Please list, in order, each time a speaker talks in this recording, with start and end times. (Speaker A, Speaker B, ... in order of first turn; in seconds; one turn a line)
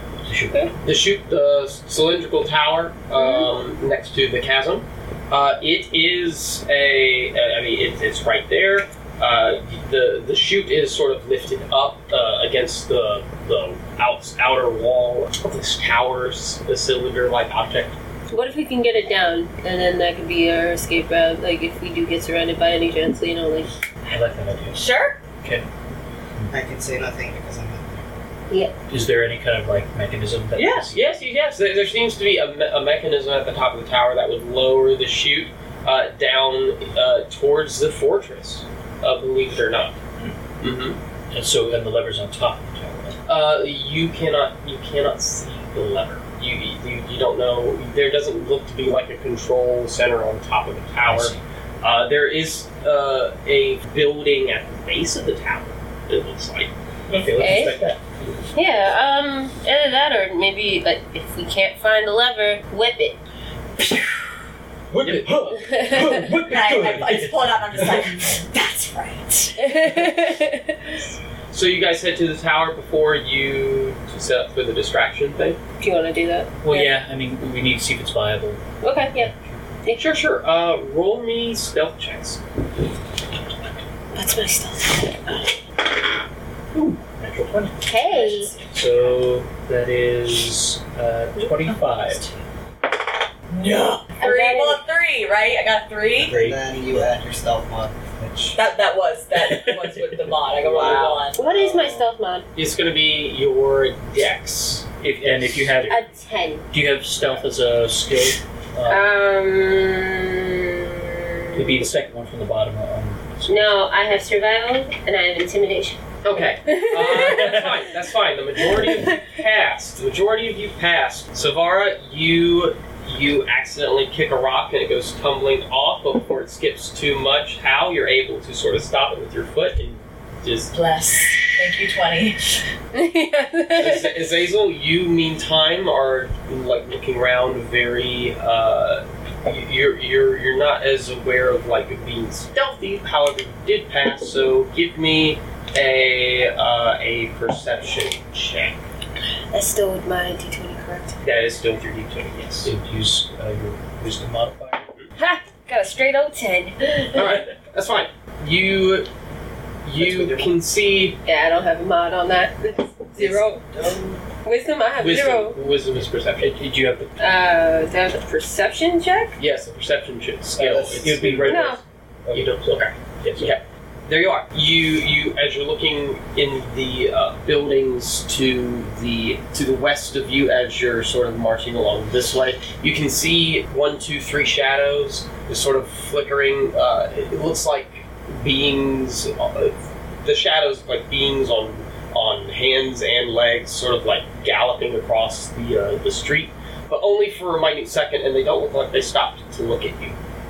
Speaker A: 0.2-0.5
Speaker B: 0.8-17.9
Speaker C: 3.1-3.4
Speaker C: 18.3-23.7
Speaker A: 24.0-24.8
Speaker D: 24.7-25.2
Speaker A: 25.4-25.7
Speaker E: 26.5-28.1
Speaker A: 28.9-31.1
Speaker B: 30.6-40.0
Speaker B: 40.6-41.0
Speaker A: 41.3-43.2
Speaker B: 43.3-56.7
Speaker A: 51.0-51.4
Speaker A: 57.1-58.4
Speaker C: 57.4-57.8
Speaker C: 58.5-63.2
Speaker A: 63.8-64.0
Speaker A: 64.9-67.4
Speaker C: 65.7-66.0
Speaker D: 66.3-69.7
Speaker C: 69.6-71.0
Speaker B: 71.5-75.6
Speaker C: 75.8-76.9
Speaker A: 76.6-79.6
Speaker C: 78.8-79.3
Speaker B: 79.9-82.4
Speaker C: 84.1-85.6
Speaker A: 86.7-87.8
Speaker C: 87.8-88.5
Speaker D: 87.9-89.1
Speaker A: 88.7-92.2
Speaker D: 91.5-92.2
Speaker D: 93.5-96.3
Speaker C: 94.2-94.8
Speaker E: 96.2-98.5
Speaker A: 96.2-96.6
Speaker D: 98.5-101.5
Speaker B: 100.6-101.2
Speaker E: 100.7-101.0
Speaker C: 101.3-102.5
Speaker B: 102.5-106.0
Speaker A: 105.0-106.0
Speaker C: 105.9-106.6
Speaker A: 106.7-109.1
Speaker C: 108.9-111.8
Speaker A: 111.5-113.7
Speaker C: 113.4-116.0
Speaker B: 116.2-130.7
Speaker C: 116.7-117.3
Speaker D: 130.7-132.6
Speaker C: 132.9-134.1
Speaker B: 133.7-148.8
Speaker C: 149.5-151.1
Speaker B: 151.2-152.7
Speaker A: 152.6-154.9
Speaker C: 155.2-157.2
Speaker B: 157.1-159.1
Speaker B: 159.8-161.2
Speaker E: 160.0-160.5
Speaker C: 161.2-163.6
Speaker E: 163.2-164.2
Speaker C: 164.4-165.6
Speaker B: 165.0-166.6
Speaker A: 166.4-167.1
Speaker C: 167.2-169.4
Speaker B: 169.4-171.7
Speaker E: 170.6-171.5
Speaker A: 170.9-171.8
Speaker C: 171.5-171.8
Speaker E: 172.2-172.6
Speaker A: 172.3-173.5
Speaker B: 172.7-200.2